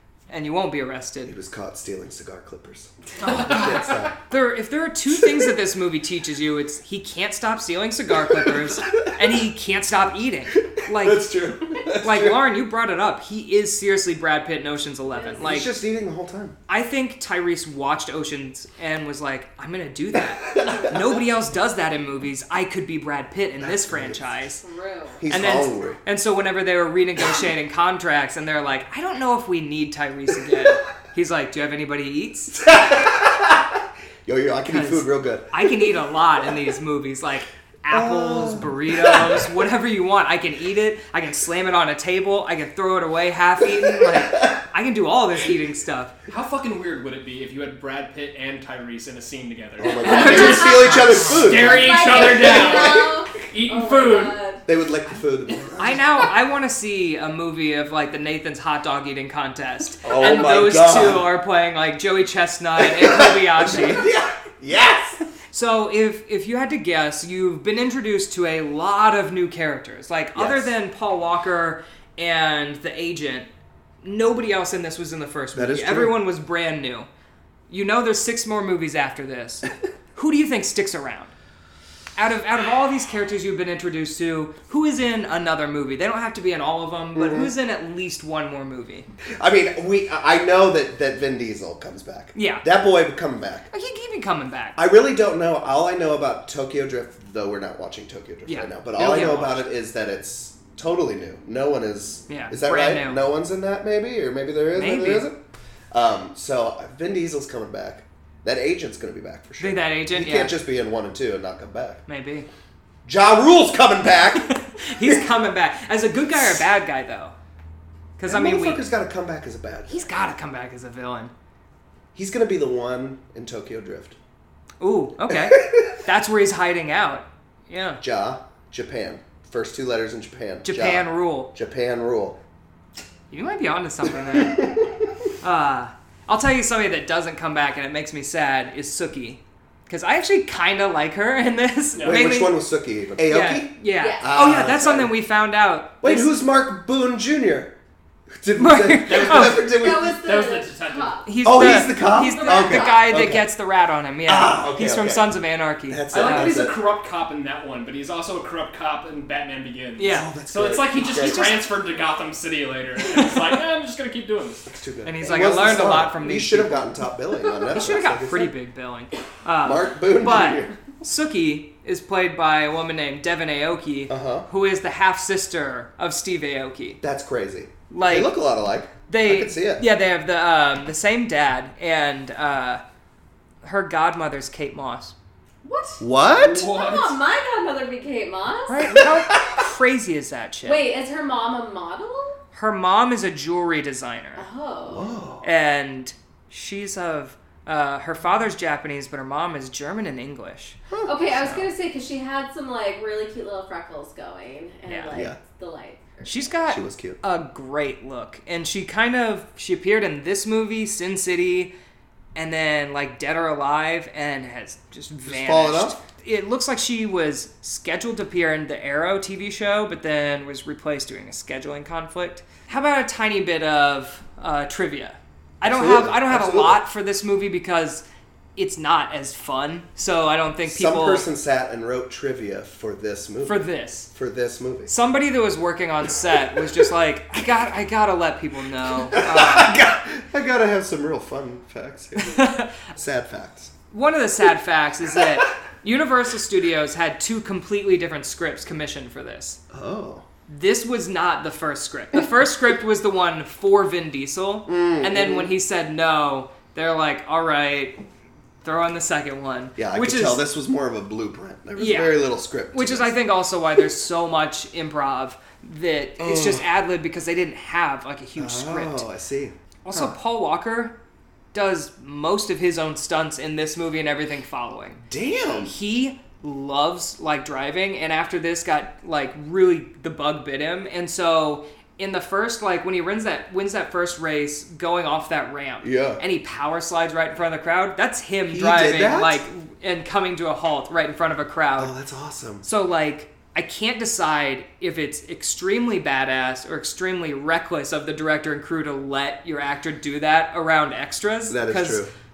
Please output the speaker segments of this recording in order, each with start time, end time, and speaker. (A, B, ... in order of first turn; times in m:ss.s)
0:00.3-0:01.3 A
0:01.2-0:04.2 B
0:03.2-0:11.3 A
0:08.2-0:09.1 B
0:10.8-0:12.4 B
0:12.0-0:15.7 A
0:15.1-0:15.4 C
0:15.4-0:16.6 B
0:16.7-0:24.6 A
0:20.1-0:21.2 B
0:23.6-0:24.3 B
0:24.6-0:25.2 C
0:25.2-0:26.0 B
0:25.3-0:32.6 A
0:32.6-0:36.0 B
0:34.7-0:46.2 A
0:37.9-0:39.4 B
0:43.6-0:44.6 B
0:46.3-0:54.4 D
0:49.8-0:53.1 B
0:50.0-0:54.6 C
0:50.1-0:51.5 A
0:54.6-0:56.3 B
0:55.8-1:04.1 A
1:00.0-1:01.3 B
1:02.8-1:05.2 B
1:05.5-1:13.5 A
1:10.4-1:10.7 B
1:14.0-1:17.1 A
1:15.5-1:16.2 B
1:17.7-1:21.3 A
1:22.2-1:29.1 A
1:27.1-1:27.5 B
1:29.4-1:33.7 B
1:32.3-1:32.7 A
1:33.7-1:34.8 A
1:34.8-1:45.4 B
1:38.4-1:39.7 A
1:42.3-1:43.2 A
1:44.7-1:45.3 A
1:45.9-1:52.0 B
1:49.6-1:50.6 A
1:52.1-1:52.5 A
1:53.0-1:55.2 B
1:54.3-1:57.3 A
1:58.2-1:58.8 A
1:58.3-2:00.1 B
1:59.9-2:01.3 A
2:02.1-2:04.2 B
2:04.8-2:08.0 A
2:05.3-2:06.0 B
2:08.0-2:12.4 B
2:10.6-2:11.5 A
2:13.3-2:14.7 A
2:14.2-2:14.9 B
2:15.4-2:22.6 A
2:21.9-2:22.3 D
2:22.0-2:25.2 B
2:23.2-2:26.3 A
2:23.9-2:24.3 C
2:26.0-2:27.7 B
2:28.4-2:30.2 B
2:28.6-2:29.6 A
2:29.1-2:31.2 D
2:29.8-2:33.0 C
2:31.2-2:36.6 A
2:31.4-2:33.5 B
2:34.2-2:36.8 B
2:36.1-2:44.7 D
2:40.0-2:40.3 A
2:40.0-2:41.6 B
2:40.9-2:41.7 A
2:44.7-2:48.5 B
2:45.0-2:46.8 A
2:47.7-2:57.0 A
2:49.6-2:50.8 B
2:54.1-2:54.4 B
2:57.0-2:59.8 B
2:57.9-2:58.4 A
2:59.1-3:02.8 A
3:03.6-3:05.1 A
3:05.6-3:06.0 C
3:06.0-3:06.7 B
3:06.4-3:07.2 D
3:06.6-3:08.9 C
3:08.7-3:10.9 A
3:09.0-3:09.5 B
3:10.6-3:12.4 C
3:12.5-3:14.4 A
3:14.4-3:15.2 C
3:14.9-3:15.4 B
3:15.4-3:21.7 A
3:20.9-3:21.2 B
3:21.0-3:26.4 C
3:24.9-3:25.1 A
3:25.1-3:25.4 B
3:26.2-3:31.7 A
3:26.5-3:27.2 B
3:32.3-3:48.0 A
3:35.2-3:36.0 B
3:45.6-3:46.8 B
3:48.6-3:51.2 A
3:50.6-3:54.9 B
3:53.4-3:54.1 A
3:54.9-3:59.8 A
3:59.1-4:03.7 B
4:02.2-4:02.7 A
4:03.9-4:09.6 A
4:09.7-4:10.2 B
4:10.5-4:18.0 A
4:14.7-4:15.5 B
4:18.6-4:20.4 A
4:19.8-4:23.1 B
4:21.8-4:29.0 A
4:26.2-4:26.6 B
4:28.4-4:30.2 B
4:29.8-4:30.9 A
4:31.5-4:35.0 A
4:35.1-4:35.7 B
4:35.6-4:51.9 A
4:45.8-4:46.2 B
4:48.5-4:49.4 B
4:51.8-4:52.6 B
4:52.6-5:02.1 A
5:01.5-5:02.1 B